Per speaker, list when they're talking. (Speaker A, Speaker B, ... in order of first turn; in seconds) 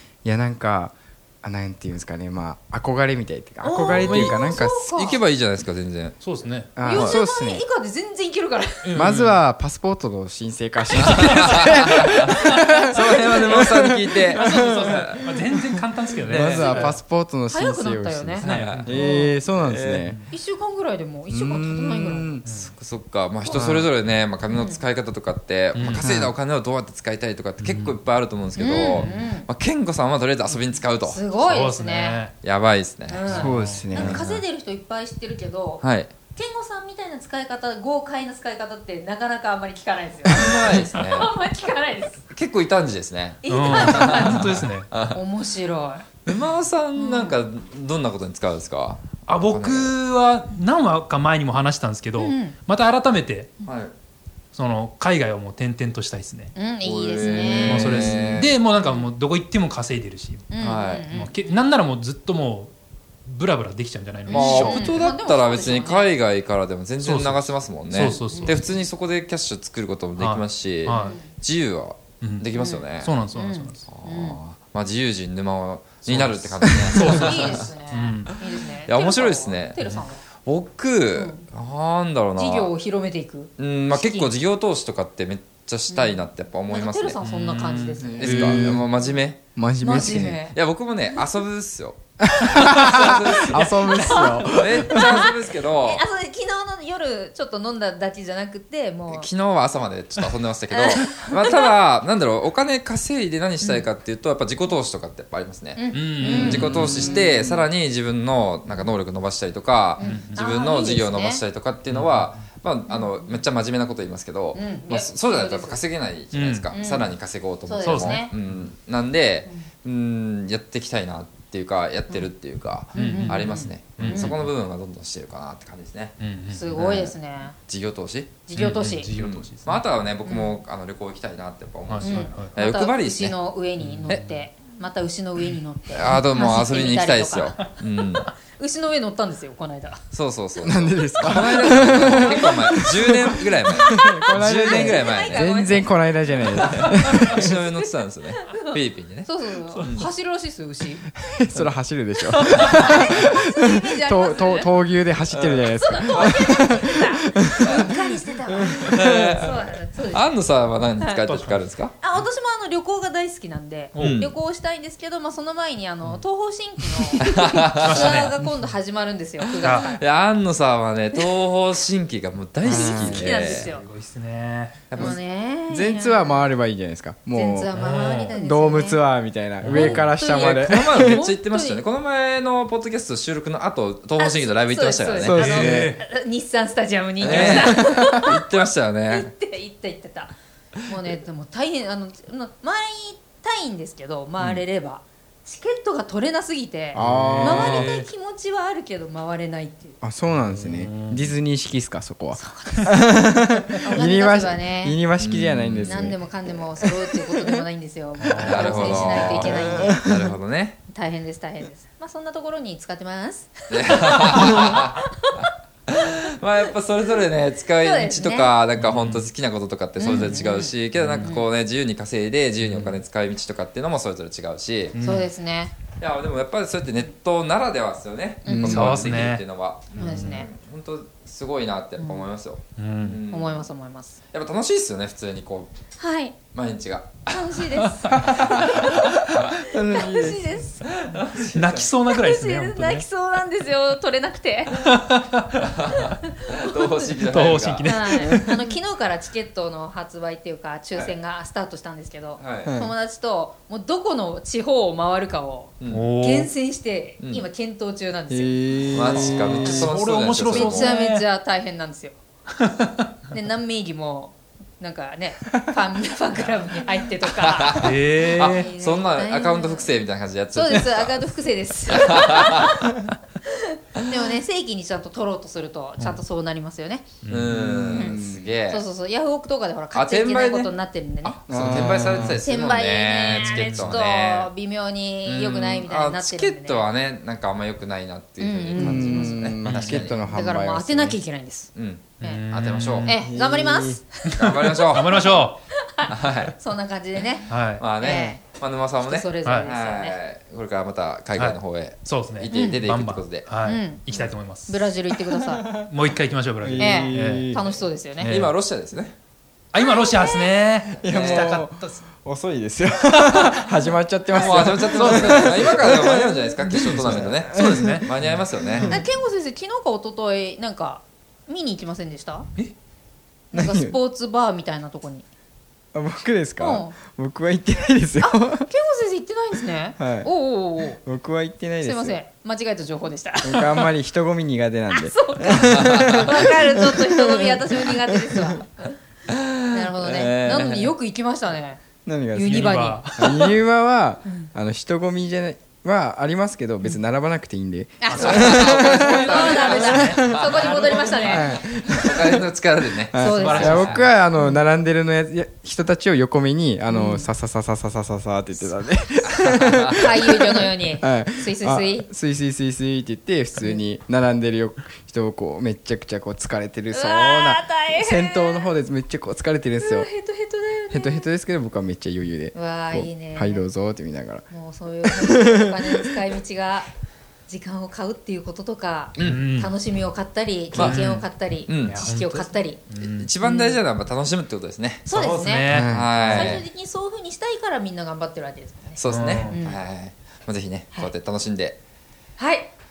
Speaker A: 0.2-5.2, 6.8-7.6, 8.9-20.2, 21.3-22.4, 23.5-23.9, 33.2-34.2, 88.2-88.9, 89.5-90.5, 92.2-95.2, 140.6-147.6, 151.2-159.5, 175.7-180.9, 185.2-185.9, 187.2-188.1, 196.9-198.0, 200.0-207.5, 209.3-210.3, 228.5-229.1, 239.7-240.7, 252.6-252.9, 258.3-259.6, 277.8-278.5, 281.5-282.4, 288.7-291.2, 293.2-294.0, 305.1-305.9, 306.6-307.7, 311.0-318.1, 318.7-319.0, 323.5-324.0, 325.9-328.7, 330.0-330.3, 330.9-332.2, 333.4-338.6, 342.1-350.4, 351.2-352.5, 353.1-370.1, 370.9-374.5, 375.0-376.3, 385.7-386.1
Speaker B: 3.6-5.2, 6.8-9.0, 17.5-19.4, 20.3-22.4, 24.5-24.8, 28.6-29.5, 31.0-32.3, 33.1-42.2, 43.4-46.1, 47.0-47.4, 52.2-52.6, 56.5-58.2, 58.8-59.1, 60.5-61.7, 64.3-66.2, 68.2-68.6, 70.9-71.3, 72.5-74.4, 77.0-80.2, 81.1-81.5, 82.4-84.3, 85.9-88.7, 89.8-90.6, 93.6-99.3, 100.7-101.7, 105.8-107.3, 110.0-111.4, 112.9-113.2, 114.5-115.8, 116.7-117.1, 117.7-118.3, 122.1-122.3, 122.9-124.4, 126.5-127.6, 128.5-129.1, 130.2-130.6, 132.0-137.8, 138.5-140.0, 142.2-142.5, 143.8-151.0, 152.5-154.7, 155.8-160.5, 162.0-170.0, 172.6-173.9, 174.9-176.5, 177.3-179.0, 179.7-181.9, 184.2-190.3, 190.9-200.0, 202.3-205.0, 205.8-210.0, 210.9-215.5, 217.8-218.6, 220.0-221.5, 225.0-225.7, 228.4-228.9, 230.0-230.5, 232.0-232.3, 233.3-234.2, 236.0-236.4, 237.3-239.1, 239.7-241.2, 242.1-244.9, 246.0-247.2, 247.8-258.9, 259.6-259.9, 260.5-262.2, 263.3-269.9, 270.5-272.9, 273.5-277.1, 277.9-281.4, 282.3-286.9, 288.4-292.4, 293.1-298.4, 299.0-300.2, 302.5-302.8, 303.6-305.7, 306.8-308.3, 309.8-310.6, 318.9-322.5, 323.5-325.2, 326.6-327.0, 328.2-331.0, 331.8-333.9, 334.9-339.0, 339.7-341.8, 342.3-343.5, 348.0-351.6, 353.1-353.9, 356.9-357.3, 359.4-362.1, 366.9-368.7, 369.8-371.3, 372.5-373.7, 374.5-376.9, 377.5-382.8, 383.4-383.8, 385.1-385.7, 386.3-389.8, 392.4-392.7
Speaker C: 4.1-4.3, 6.2-6.7, 8.8-9.4, 14.4-17.0, 18.4-19.0, 22.4-22.7, 25.7-26.3, 27.6-28.0, 28.9-29.3, 31.3-32.3, 33.2-34.4, 43.5-44.9, 49.3-53.5, 54.5-56.5, 57.3-60.6, 61.1-62.7, 63.2-65.1, 67.0-68.7, 70.2-71.2, 72.2-73.8, 76.0-78.3, 87.2-88.6, 105.9-107.4, 110.0-110.4, 111.9-112.3, 116.3-116.7, 117.8-118.7, 122.9-124.4, 126.2-126.9, 128.6-129.9, 131.9-132.5, 133.8-134.4, 149.7-150.0, 161.1-161.6, 163.9-164.2, 167.7-168.5, 169.6-169.9, 172.7-174.9, 177.8-178.3, 179.6-180.0, 185.3-186.0, 197.0-198.1, 200.4-201.3, 208.3-209.1, 218.8-219.3, 220.1-220.4, 220.9-221.3, 222.6-223.0, 224.9-225.3, 228.5-229.4, 229.9-230.5, 232.8-233.2, 237.9-238.5, 241.4-243.1, 244.8-245.6, 247.2-248.7, 255.9-256.5, 259.1-261.2, 267.8-268.7, 277.2-277.7, 281.5-282.3, 289.6-290.0, 292.2-293.1, 294.3-295.6, 297.5-297.9, 299.4-299.7, 301.3-304.9, 305.9-307.5, 308.2-308.6, 309.7-312.0, 314.6-315.5, 316.8-318.9, 342.4-343.3, 348.3-351.5, 353.3-354.1, 379.2-379.7, 380.7-381.2, 381.8-383.3, 385.1-386.5, 389.1-389.6
Speaker D: 4.9-6.2, 6.9-7.2, 11.0-12.3, 12.9-15.2, 16.3-16.8, 18.4-18.9, 19.6-20.1, 22.6-31.2, 32.4-33.2, 35.8-36.1, 40.2-41.3, 42.3-45.2, 46.2-50.0, 53.6-53.9, 56.8-58.6, 60.6-61.1, 64.3-73.1, 73.9-77.7, 78.8-79.8, 80.5-82.7, 83.6-87.2, 88.2-89.4, 90.5-96.0, 99.1-126.2, 126.7-127.1, 127.7-128.5, 129.1-133.4, 135.9-138.3, 140.1-145.5, 146.4-150.1, 155.3-156.4, 158.9-161.9, 164.0-164.3, 167.2-168.3, 169.7-173.7, 174.9-175.2, 180.5-185.5, 187.2-189.3, 205.2-206.1, 208.4-210.8, 213.7-215.0, 215.9-225.0, 226.0-233.7, 234.3-235.7, 236.5-237.7, 238.4-239.5, 241.1-241.9, 245.6-248.3, 252.4-252.8, 255.8-256.1, 257.2-257.4, 258.9-261.0, 267.3-271.3, 271.9-272.8, 277.3-278.9, 279.9-280.7, 281.2-284.5, 285.2-290.1, 291.8-293.2, 294.3-295.2, 296.1-296.6, 297.8-303.5, 308.2-309.2, 311.1-311.6, 314.3-318.9, 335.6-336.3, 339.3-340.9, 348.1-351.1, 351.9-354.0, 359.4-359.9, 379.2-379.4, 380.7-381.1, 381.7-382.0, 383.0-385.1, 385.9-386.7, 389.0-391.8